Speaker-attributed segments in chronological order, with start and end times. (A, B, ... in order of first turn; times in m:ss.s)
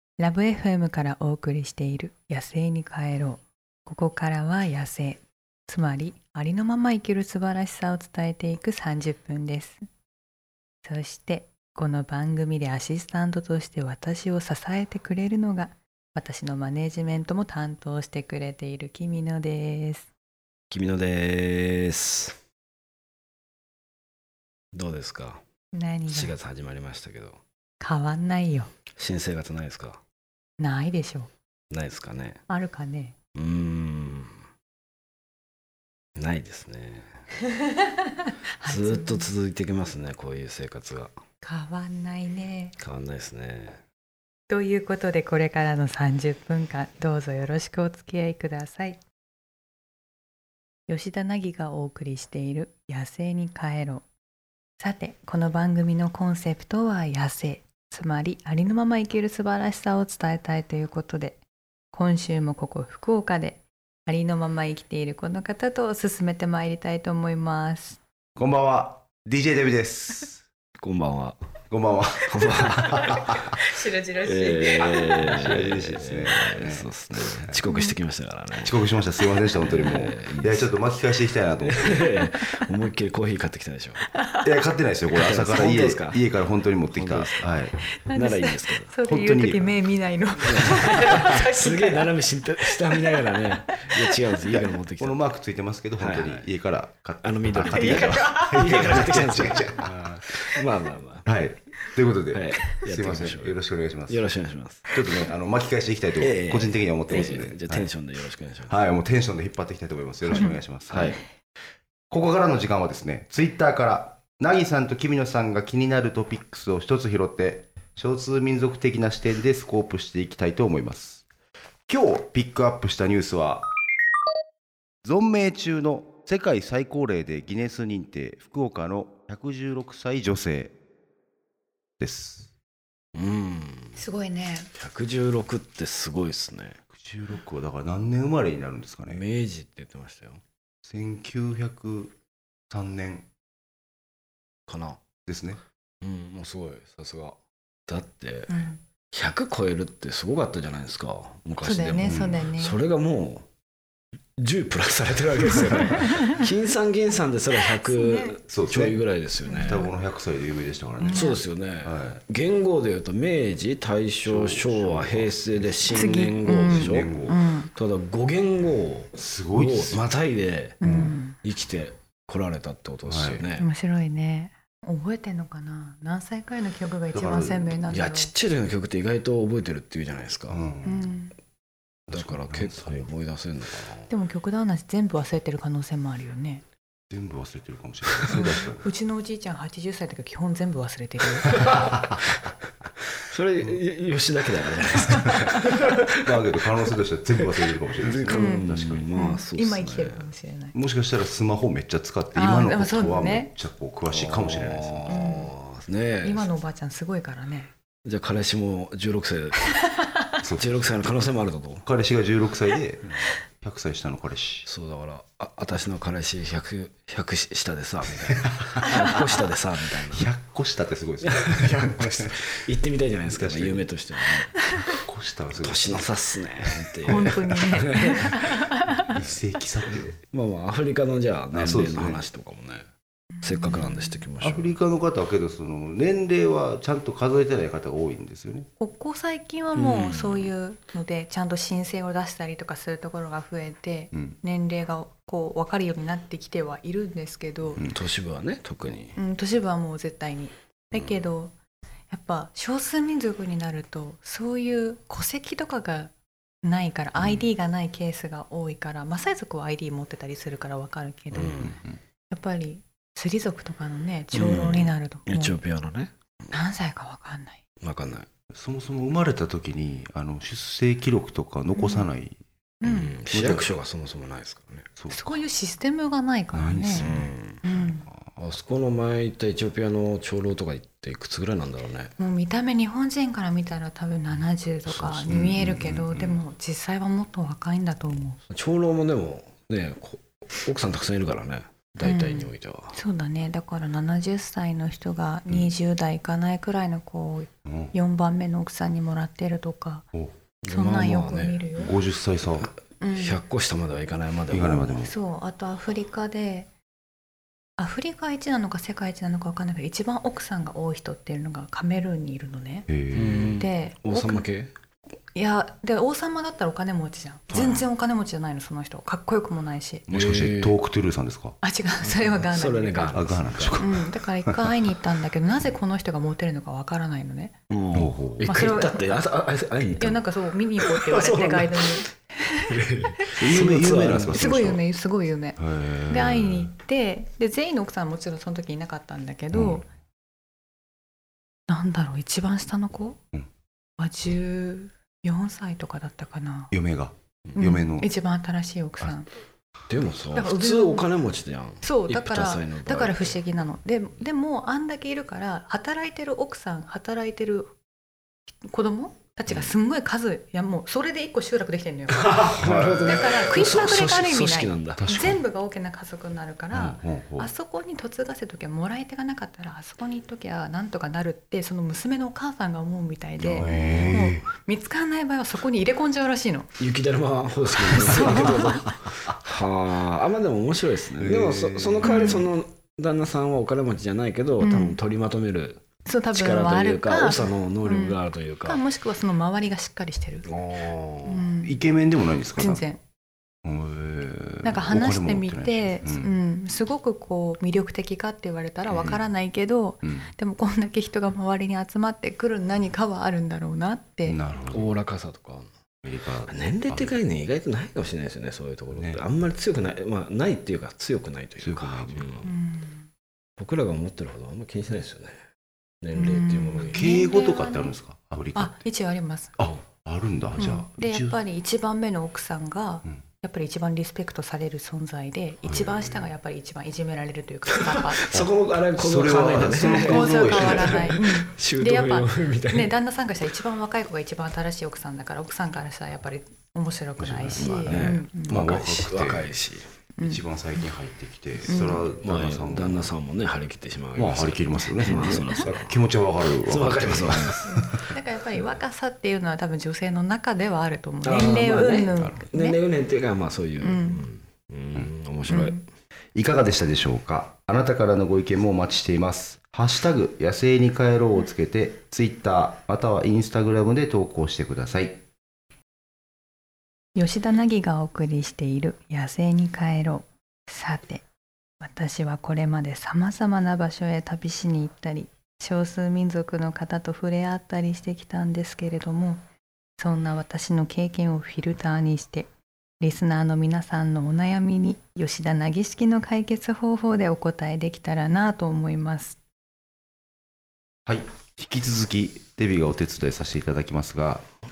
0:00.2-0:09.8 A
0:10.8-0:20.1 A
0:20.7-0:22.4 B
0:24.7-0:25.4 B
0:25.7-0:26.4 A
0:26.1-0:27.4 B
0:27.8-0:28.7 A
0:29.0-0:30.0 B
0:30.6-0:31.3 A
0:31.7-0:32.4 B
0:32.5-0:33.1 A
0:33.4-0:34.4 B
0:36.2-0:37.1 B
0:37.4-0:39.3 A
0:38.6-0:41.2 B
0:41.4-0:42.8 A
0:42.8-0:43.8 B
0:44.5-0:49.0 A
0:50.9-0:54.1 A
0:54.8-1:01.4 A
1:01.9-1:08.0 A
1:08.4-1:10.4 C
1:10.8-1:11.4 B
1:11.7-1:13.6 C
1:12.3-1:13.6 B
1:13.2-1:15.5 A
1:14.2-1:18.8 B
1:15.2-1:17.6 C
1:17.7-1:18.0 A
1:18.6-1:22.1 C
1:19.6-1:20.7 B
1:21.6-1:24.1 B
1:22.2-1:22.5 A
1:24.1-1:24.5 A
1:24.4-1:27.8 C
1:25.1-1:26.3 B
1:26.9-1:27.6 B
1:27.8-1:32.1 A
1:28.1-1:28.9 B
1:29.0-1:29.7 C
1:30.4-1:35.2 B
1:32.7-1:34.6 A
1:35.0-1:40.3 C
1:36.0-1:36.5 B
1:37.2-1:41.3 B
1:37.6-1:38.9 A
1:41.2-1:44.3 C
1:42.3-1:45.3 B
1:44.9-1:47.9 C
1:46.2-1:48.8 B
1:48.7-1:51.2 C
1:50.9-1:51.2 B
1:52.1-2:01.2 C
2:01.9-2:03.7 C
2:05.0-2:10.8 C
2:12.0-2:12.5 C
2:13.2-2:14.0 B
2:14.0-2:14.7 A
2:14.8-2:16.8 B
2:16.9-2:19.2 C
2:19.1-2:20.4 B
2:20.8-2:22.2 C
2:22.7-2:23.3 C
2:24.7-2:25.0 B
2:25.3-2:25.6 C
2:26.0-2:27.4 B
2:27.9-2:28.6 B
2:28.5-2:28.8 A
2:29.1-2:33.5 B
2:31.6-2:32.8 A
2:32.0-2:32.4 C
2:34.4-2:39.9 B
2:36.0-2:36.3 A
2:37.6-2:38.4 A
2:38.5-2:39.0 C
2:39.5-2:39.9 A
2:39.6-2:42.2 C
2:41.0-2:41.4 A
2:41.1-2:53.7 B
2:44.2-2:47.4 C
2:45.8-2:47.7 A
2:49.1-2:50.0 C
2:50.8-2:51.4 A
2:50.8-2:51.1 C
2:53.1-2:53.5 C
2:53.6-2:58.3 A
2:57.1-2:57.8 C
2:57.9-3:00.7 B
3:00.5-3:01.1 C
3:00.8-3:01.3 A
3:02.1-3:03.1 C
3:02.1-3:04.1 B
3:04.1-3:06.6 A
3:07.1-3:08.9 C
3:08.3-3:11.8 A
3:11.5-3:12.4 B
3:11.6-3:12.2 C
3:13.2-3:16.7 B
3:15.0-3:15.5 C
3:16.2-3:19.1 C
3:17.4-3:20.3 B
3:18.3-3:20.8 A
3:20.7-3:25.3 C
3:22.3-3:23.5 A
3:24.1-3:26.5 B
3:25.1-3:25.5 A
3:26.2-3:27.7 A
3:28.0-3:29.8 B
3:29.7-3:30.4 A
3:30.4-3:30.8 C
3:30.6-3:31.9 B
3:31.8-3:34.7 C
3:34.6-3:40.3 B
3:38.4-3:39.3 C
3:40.0-3:42.4 C
3:41.2-3:44.6 B
3:43.3-3:43.9 C
3:44.5-3:45.0 A
3:44.9-3:46.1 C
3:45.6-3:48.4 B
3:46.9-3:47.9 C
3:47.1-3:49.2 A
3:49.1-3:50.1 C
3:50.1-3:52.9 B
3:51.5-3:52.2 C
3:53.4-3:54.2 A
3:53.4-3:54.8 B
3:54.4-3:58.7 C
3:58.8-4:07.8 A
3:59.7-4:00.5 B
4:07.8-4:09.2 B
4:09.2-4:11.5 A
4:12.1-4:21.8 A
4:17.2-4:17.5 C
4:21.3-4:21.8 B
4:21.6-4:22.0 C
4:22.3-4:25.6 A
4:24.3-4:26.6 B
4:26.5-4:27.6 A
4:27.8-4:28.3 B
4:28.5-4:32.4 C
4:31.7-4:32.1 A
4:32.8-4:33.2 A
4:32.8-4:35.0 B
4:33.3-4:33.7 C
4:35.0-4:35.3 C
4:35.1-4:38.1 A
4:36.5-4:37.9 C
4:36.9-4:37.6 B
4:38.4-4:42.1 B
4:42.2-4:48.4 A
4:45.0-4:46.4 C
4:48.5-4:53.0 B
4:52.0-5:00.1 A
4:57.7-4:57.9 C
5:00.6-5:01.7 B
5:00.7-5:02.0 A
5:01.8-5:02.7 C
5:03.0-5:03.4 A
5:03.1-5:05.1 B
5:04.5-5:05.1 C
5:05.0-5:06.7 A
5:07.8-5:12.9 A
5:12.9-5:13.6 C
5:13.1-5:14.7 B
5:13.6-5:14.5 A
5:15.3-5:20.0 A
5:17.5-5:17.9 B
5:20.1-5:21.6 C
5:20.1-5:20.8 B
5:21.6-5:23.2 A
5:22.1-5:23.8 B
5:23.1-5:24.8 C
5:23.8-5:27.6 A
5:27.7-5:30.2 B
5:27.9-5:28.5 C
5:28.4-5:29.3 A
5:29.9-5:33.3 A
5:30.8-5:32.1 B
5:32.7-5:34.4 B
5:33.4-5:34.8 C
5:34.3-5:39.9 A
5:35.6-5:36.7 C
5:39.5-5:39.8 C
5:41.7-5:43.2 A
5:44.0-5:46.7 A
5:46.7-5:48.1 C
5:47.6-5:49.3 A
5:49.9-5:53.4 B
5:50.3-5:51.1 A
5:51.8-5:57.7 A
5:58.6-6:16.7 A
5:59.5-5:59.7 C
6:02.2-6:05.0 B
6:02.5-6:03.2 C
6:05.0-6:05.4 C
6:06.7-6:07.5 C
6:13.4-6:14.2 B
6:13.5-6:14.5 C
6:16.8-6:28.8 B
6:17.8-6:19.0 A
6:21.2-6:22.4 C
6:22.0-6:22.5 A
6:24.6-6:25.0 A
6:26.1-6:30.5 A
6:30.5-6:31.5 B
6:31.2-6:31.8 A
6:31.6-6:32.8 C
6:32.6-6:33.0 A
6:33.6-6:36.4 C
6:34.6-6:44.4 A
6:38.9-6:39.2 C
6:40.0-6:40.3 C
6:44.2-6:44.9 C
6:44.7-6:45.7 B
6:46.0-6:47.2 C
6:46.5-6:52.5 B
6:48.9-6:49.2 C
6:51.6-6:52.5 C
6:52.4-6:53.1 A
6:53.6-6:55.4 B
6:56.0-6:57.1 B
6:56.1-6:57.9 A
6:56.9-6:58.8 C
6:58.6-6:59.6 A
6:59.6-7:01.4 C
7:00.6-7:08.4 A
7:05.7-7:06.2 C
7:07.7-7:13.0 B
7:08.3-7:11.2 C
7:09.7-7:18.6 A
7:17.2-7:19.5 C
7:17.6-7:19.9 B
7:20.2-7:20.4 A
7:20.2-7:23.1 C
7:21.6-7:26.0 B
7:21.7-7:22.1 A
7:24.2-7:28.0 C
7:25.1-7:25.6 A
7:26.6-7:27.9 B
7:27.7-7:32.8 A
7:31.2-7:35.8 B
7:32.2-7:32.4 C
7:33.8-7:34.3 A
7:35.5-7:35.8 A
7:36.4-7:45.2 C
7:47.2-7:51.3 A
7:51.8-7:59.4 A
8:00.0-8:02.5 A
8:03.0-8:09.4 A
8:11.1-8:14.4 C